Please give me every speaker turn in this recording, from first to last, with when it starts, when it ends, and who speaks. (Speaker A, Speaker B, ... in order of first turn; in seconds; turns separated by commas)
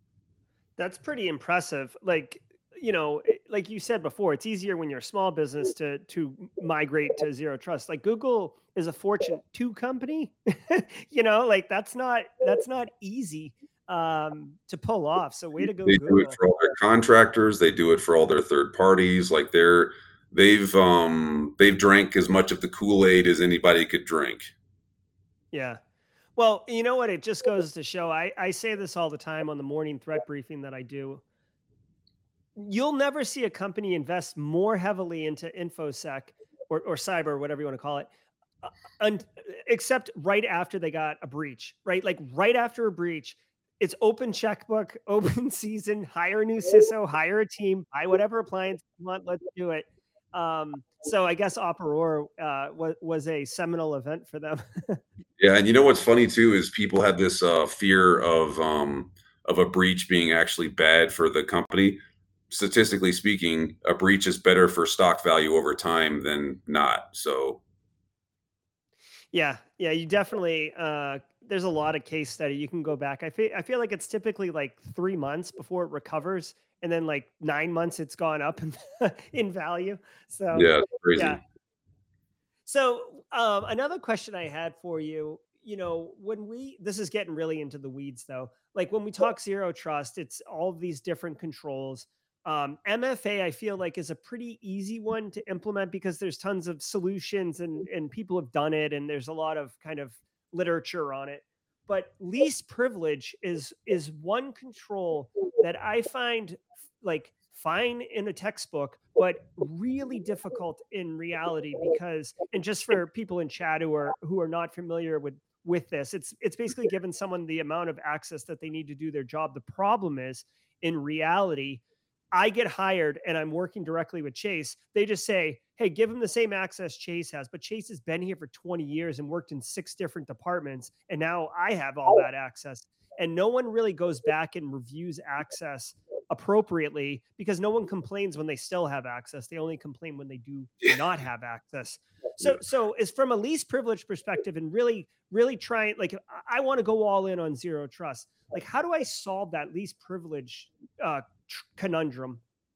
Speaker A: 0.8-16.4, Speaker B: 15.8-24.5, Speaker A: 25.5-25.8, Speaker A: 26.4-31.2, Speaker A: 32.6-38.1, Speaker A: 38.6-55.0, Speaker B: 55.4-67.6, Speaker A: 69.3-81.4, Speaker B: 80.5-81.4, Speaker A: 82.7-121.8, Speaker A: 122.3-152.4